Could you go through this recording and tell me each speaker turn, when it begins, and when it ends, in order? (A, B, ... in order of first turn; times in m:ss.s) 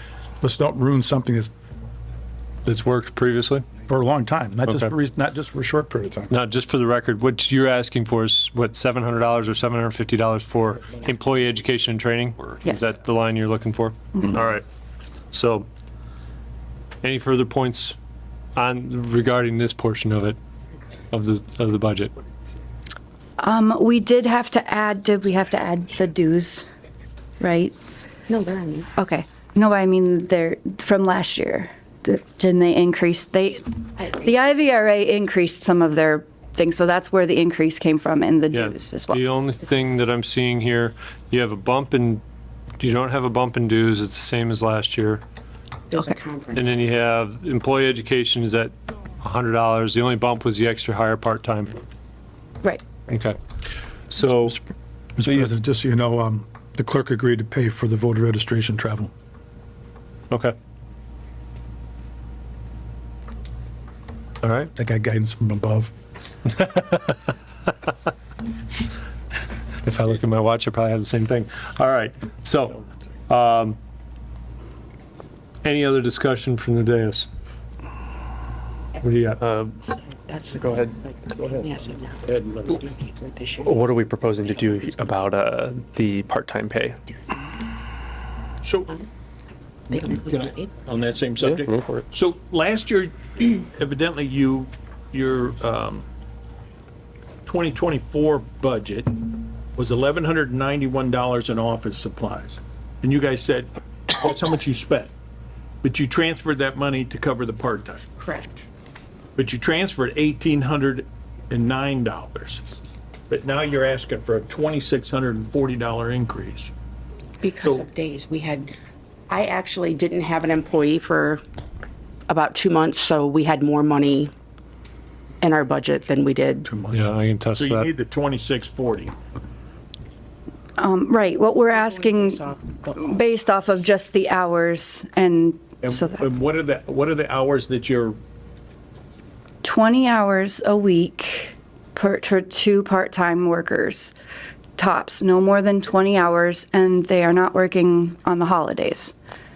0:00.4-0:01.5 A
0:02.6-0:03.7 B
0:03.9-0:06.4 A
0:04.7-0:04.9 B
0:06.3-0:14.6 B
0:15.3-0:15.7 B
0:17.0-0:18.0 B
0:18.6-0:20.4 B
0:21.1-0:22.1 B
0:23.4-0:26.7 C
0:27.4-0:27.8 C
0:28.3-0:28.9 D
0:29.0-0:39.2 C
0:38.5-0:42.2 B
0:42.8-0:45.2 B
0:45.9-0:46.7 D
0:46.5-0:51.8 B
0:53.1-0:53.4 B
0:54.1-0:54.6 B
0:55.2-0:59.1 A
1:00.3-1:00.6 B
1:04.4-1:04.7 B
1:04.8-1:05.9 A
1:06.6-1:07.1 B
1:09.8-1:13.8 B
1:15.6-1:17.3 B
1:19.0-1:19.4 B
1:19.4-1:19.8 E
1:20.2-1:22.2 D
1:20.5-1:20.9 E
1:22.3-1:22.8 F
1:22.7-1:23.7 D
1:23.6-1:27.0 E
1:28.6-1:28.9 F
1:29.9-1:30.8 D
1:30.3-1:36.1 F
1:31.4-1:32.0 E
1:37.4-1:39.2 F
1:39.8-1:45.1 F
1:45.8-1:48.1 F
1:48.2-1:48.5 D
1:49.4-1:52.8 F
1:53.3-1:56.7 F
1:57.4-1:58.8 D
1:59.3-2:01.4 D
2:02.3-2:04.3 D
2:05.4-2:06.7 D
2:06.7-2:07.0 A
2:06.9-2:07.9 B
2:07.6-2:09.2 F
2:10.8-2:16.3 C
2:11.7-2:13.2 D
2:15.8-2:18.2 F
2:19.6-2:24.1 C
2:24.8-2:29.1 C